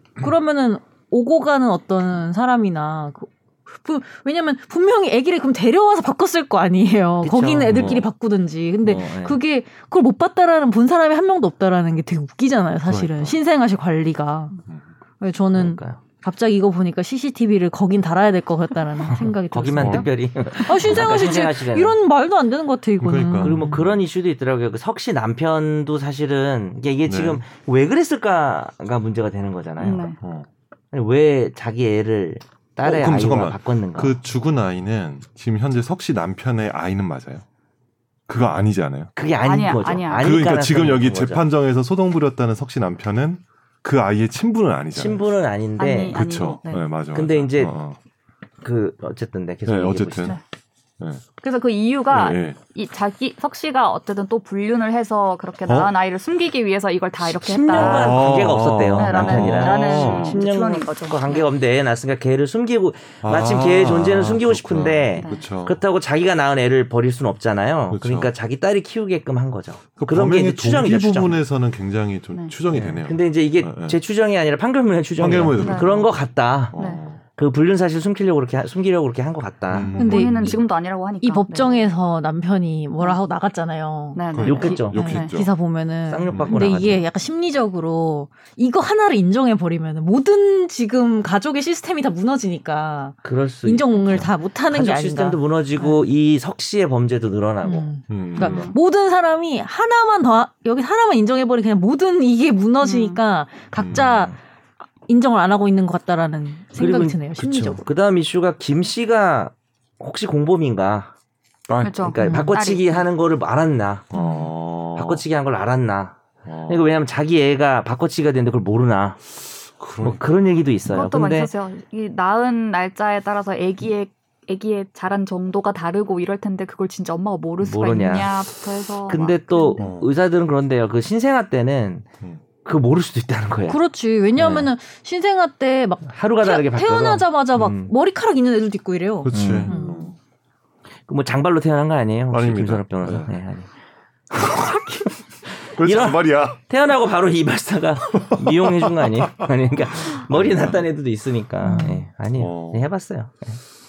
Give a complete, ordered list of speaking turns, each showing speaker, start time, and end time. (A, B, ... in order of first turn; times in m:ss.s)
0:00.2-0:14.6 A
0:07.2-0:08.0 B
0:07.7-0:08.0 C
0:08.8-0:09.4 B
0:12.8-0:13.4 C
0:15.2-0:23.8 A
0:15.5-0:16.0 B
0:19.2-0:22.0 B
0:19.8-0:20.1 C
0:23.0-0:23.7 C
0:23.4-0:30.1 B
0:27.0-0:27.4 C
0:29.8-0:30.2 D
0:30.2-0:30.5 C
0:30.9-0:34.2 B
0:32.8-0:37.4 C
0:38.3-0:39.1 C
0:39.2-0:41.4 B
0:39.4-0:40.5 D
0:40.2-0:45.2 C
0:44.9-0:46.2 B
0:45.8-0:46.8 D
0:46.1-0:48.0 C
0:47.1-0:47.8 B
0:48.6-0:50.3 B
0:49.6-0:50.4 C
0:51.4-0:58.4 D
0:52.1-0:52.6 C
0:55.6-0:55.9 C
0:57.2-1:11.4 B
0:57.7-1:00.4 C
0:58.9-1:01.4 D
1:03.2-1:05.8 C
1:05.2-1:05.4 D
1:07.9-1:08.3 C
1:10.0-1:14.0 C
1:12.7-1:16.7 B
1:15.2-1:17.2 C
1:15.5-1:15.9 D
1:16.7-1:17.0 D
1:17.4-1:19.9 B
1:19.7-1:20.6 C
1:19.9-1:21.9 D
1:20.0-1:20.6 A
1:21.2-1:36.0 A
1:24.1-1:25.3 D
1:24.3-1:25.5 C
1:24.4-1:25.0 B
1:26.1-1:27.0 B
1:26.3-1:26.5 C
1:33.2-1:37.9 B
1:37.6-1:44.4 A
1:38.1-1:38.7 C
1:38.4-1:38.8 D
1:42.8-1:43.2 D
1:43.8-1:44.3 C
1:43.9-1:44.4 B
1:45.1-1:47.8 A
1:46.8-1:51.1 B
1:51.7-1:51.9 C
1:51.8-1:53.0 D
1:51.9-1:54.1 B
1:52.2-1:52.5 A
1:54.1-1:55.2 C
1:54.2-1:54.4 A
1:54.9-1:59.2 B
1:56.4-1:56.9 C
1:59.8-2:00.2 C
2:00.0-2:01.5 B
2:00.9-2:09.9 D
2:07.6-2:08.4 B
2:09.1-2:12.1 B
2:09.8-2:10.1 C
2:12.6-2:13.8 B
2:13.7-2:20.1 A
2:14.4-2:14.7 B
2:16.0-2:17.9 B
2:19.2-2:20.1 C
2:19.3-2:19.7 B
2:21.1-2:23.7 B
2:22.3-2:23.3 C
2:24.3-2:25.1 C
2:25.7-2:26.6 C
2:25.8-2:33.6 B
2:28.3-2:29.1 C
2:29.7-2:30.9 C
2:31.6-2:32.0 A
2:32.3-2:32.9 C